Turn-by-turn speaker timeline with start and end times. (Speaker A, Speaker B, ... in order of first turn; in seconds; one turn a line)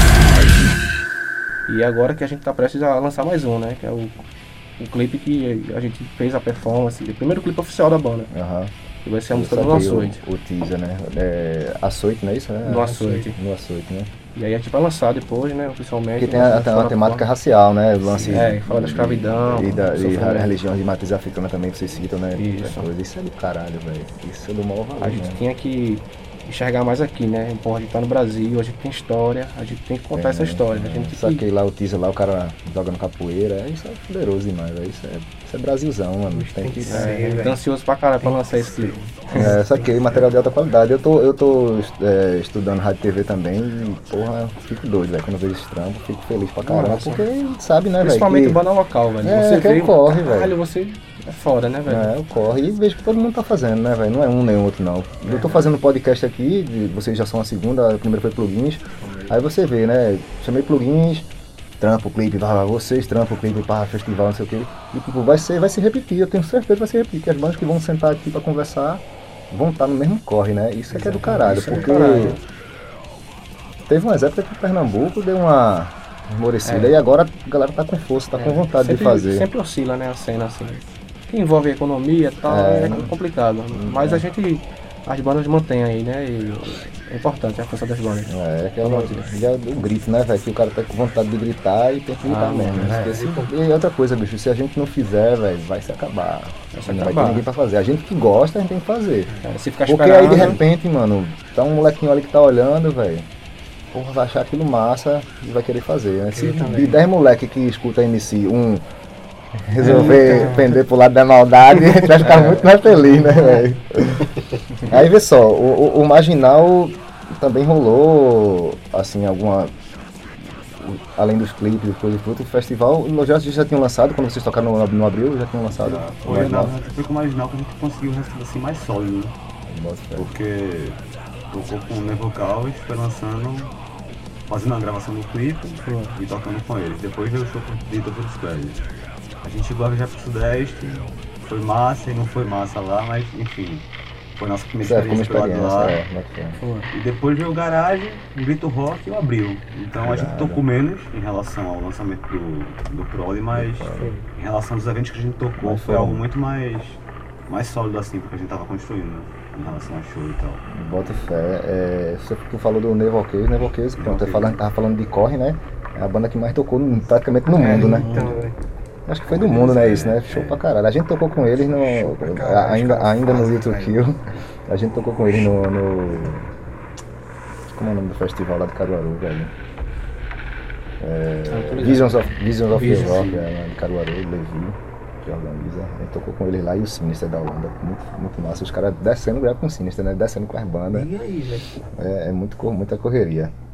Speaker A: 1.7-4.2
Speaker A: 4.8-8.3
Speaker B: 8.3-8.7
Speaker A: 9.0-10.2
Speaker B: 9.3-14.1
Speaker A: 12.6-13.4
Speaker C: 12.8-13.2
Speaker A: 14.3-17.3
Speaker B: 16.2-25.4
Speaker A: 18.3-20.5
Speaker A: 22.3-22.9
Speaker A: 25.0-31.4
Speaker B: 30.1-37.2
Speaker C: 36.3-37.6
Speaker A: 36.8-39.5
Speaker C: 38.2-40.3
Speaker B: 39.3-48.6
Speaker A: 46.6-47.2
Speaker A: 48.0-52.1
Speaker B: 49.2-50.5
Speaker B: 51.9-72.4
Speaker C: 55.3-55.6
Speaker C: 59.0-59.4
Speaker A: 70.9-72.4
Speaker C: 71.5-72.2
Speaker B: 73.9-79.5
Speaker A: 76.6-77.0
Speaker A: 78.3-89.3
Speaker B: 82.5-83.1
Speaker B: 83.7-84.2
Speaker B: 88.3-99.3
Speaker A: 92.2-93.1
Speaker C: 92.8-93.5
Speaker A: 96.7-97.5
Speaker A: 99.4-100.6
Speaker B: 99.8-103.2
Speaker B: 103.9-108.8
Speaker C: 106.3-107.0
Speaker B: 109.6-114.3
Speaker A: 109.8-110.6
Speaker C: 109.8-110.6
Speaker A: 112.2-112.6
Speaker C: 113.0-113.7
Speaker B: 114.8-119.7
Speaker B: 120.7-126.8
Speaker D: 125.7-129.3
Speaker B: 129.7-130.3
Speaker D: 130.2-131.0
Speaker D: 131.5-133.7
Speaker D: 134.5-138.8
Speaker A: 135.8-136.2
Speaker D: 139.4-143.8
Speaker D: 144.3-146.0
Speaker B: 144.8-146.6
Speaker A: 146.6-146.9
Speaker D: 146.9-160.6
Speaker B: 150.0-150.6
Speaker B: 153.5-154.1
Speaker C: 154.0-154.2
Speaker B: 155.6-156.2
Speaker B: 160.7-168.3
Speaker D: 164.0-164.6
Speaker A: 167.6-168.4
Speaker C: 167.6-168.5
Speaker B: 169.1-176.4
Speaker D: 169.3-170.6
Speaker C: 171.7-174.1
Speaker B: 177.7-179.5
Speaker B: 181.0-191.1
Speaker A: 181.5-183.2
Speaker D: 183.0-183.5
Speaker C: 190.9-191.7
Speaker B: 191.9-193.5